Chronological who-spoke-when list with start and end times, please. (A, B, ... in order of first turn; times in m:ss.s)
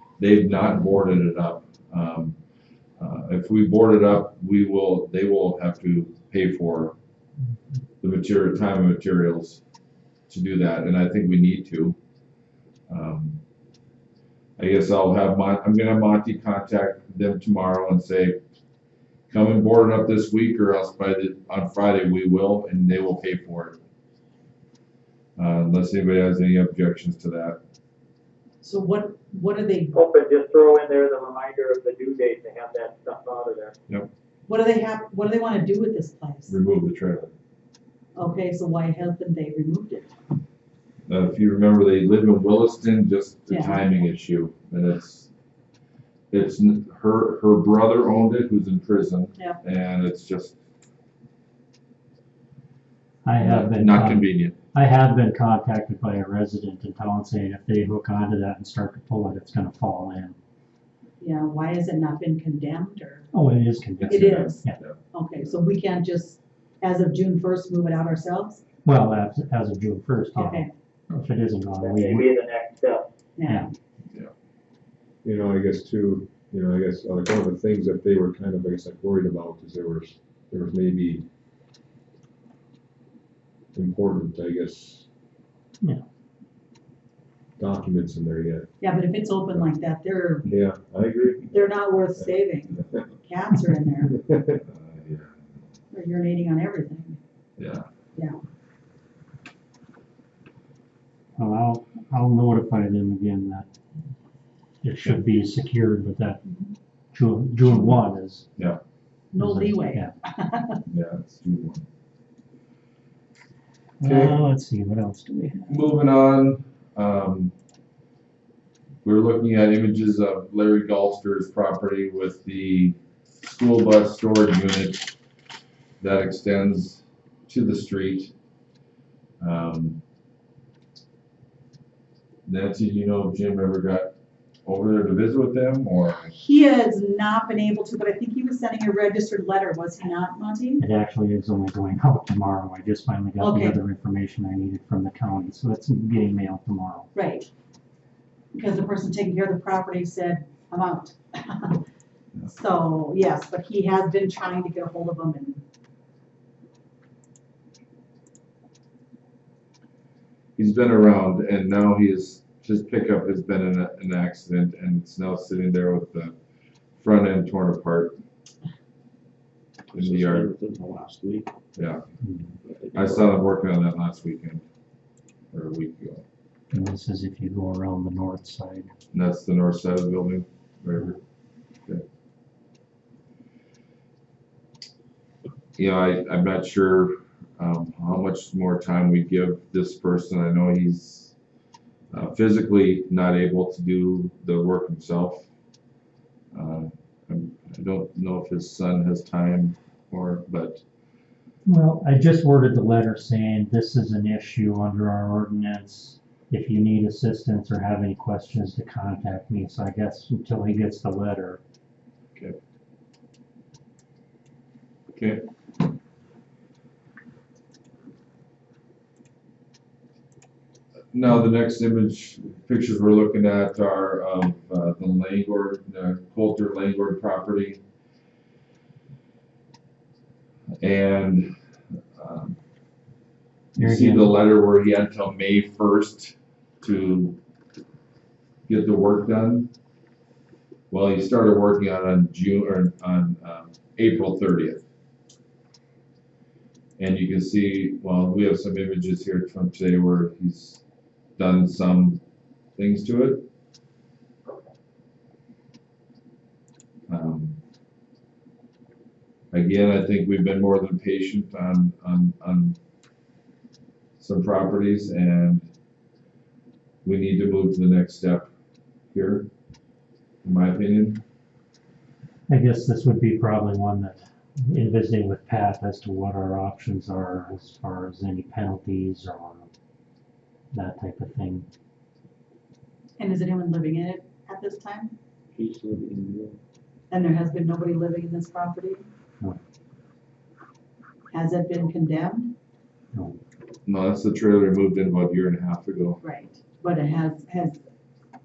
0:00.2-0:02.4 A
0:03.0-0:06.9 A
0:08.0-0:09.6 A
0:10.3-0:12.0 A
0:12.9-0:13.4 A
0:14.6-0:18.4 A
0:19.3-0:23.8 A
0:25.4-0:27.6 A
0:28.6-0:30.0 B
0:29.9-0:33.7 C
0:34.5-0:36.6 B
0:36.5-0:37.3 A
0:38.2-0:40.1 B
0:41.1-0:45.3 A
0:43.5-0:43.8 B
0:46.3-0:50.6 A
0:53.2-1:00.4 D
0:53.4-0:54.6 A
1:01.2-1:03.3 B
1:03.3-1:04.8 D
1:04.0-1:05.0 A
1:04.1-1:08.6 B
1:08.8-1:12.3 D
1:10.3-1:10.7 B
1:11.8-1:13.0 C
1:13.4-1:13.7 B
1:13.4-1:13.7 D
1:15.2-1:21.2 E
1:23.7-1:25.0 E
1:27.6-1:28.7 E
1:28.8-1:30.5 B
1:30.4-1:31.8 E
1:31.5-1:34.2 B
1:34.0-1:34.6 E
1:34.6-1:35.5 A
1:35.9-1:37.2 B
1:37.6-1:37.8 A
1:41.4-1:43.7 D
1:44.8-1:46.4 D
1:46.4-1:46.7 B
1:47.1-1:48.5 D
1:47.6-1:48.0 B
1:49.3-1:50.8 B
1:49.4-1:50.1 D
1:50.8-1:51.8 A
1:54.0-1:55.8 D
1:54.0-1:54.4 A
1:55.7-1:57.5 A
1:59.0-2:05.1 A
2:06.0-2:08.3 A
2:09.4-2:10.0 A
2:12.4-2:14.1 A
2:14.6-2:16.3 A
2:16.3-2:20.8 B
2:20.8-2:27.1 D
2:23.4-2:23.8 B
2:27.1-2:27.5 B
2:28.5-2:31.8 B
2:32.5-2:35.6 B
2:40.6-2:46.3 A
2:47.0-2:48.2 A
2:49.9-2:51.5 F
2:49.9-2:50.5 A
2:51.8-2:52.0 A
2:52.2-2:52.5 D
2:52.6-2:53.4 F
2:52.9-2:54.6 A
2:55.5-2:56.2 A
2:56.7-2:58.9 D
2:59.1-3:01.2 A
3:05.8-3:11.3 A
3:12.1-3:15.5 A
3:16.5-3:20.8 A
3:21.6-3:31.6 D
3:35.1-3:35.4 A
3:41.1-3:47.8 A
3:50.8-3:51.5 A
3:52.1-3:52.6 A
3:53.8-3:54.3 D
3:53.8-3:57.4 A
3:58.7-3:59.7 A
4:00.9-4:04.8 A
4:07.0-4:10.8 A
4:11.4-4:12.2 A
4:12.8-4:13.5 A
4:17.1-4:17.6 A
4:19.5-4:22.8 A
4:24.2-4:25.7 A
4:27.0-4:28.5 A
4:29.1-4:29.5 A
4:30.4-4:31.2 A
4:32.5-4:39.7 D
4:40.7-4:41.7 D
4:43.2-4:45.1 B
4:45.5-4:46.6 F
4:47.1-4:49.0 B
4:51.3-4:52.5 B
4:53.1-4:53.4 D
4:53.8-4:56.2 A
4:56.2-4:57.8 B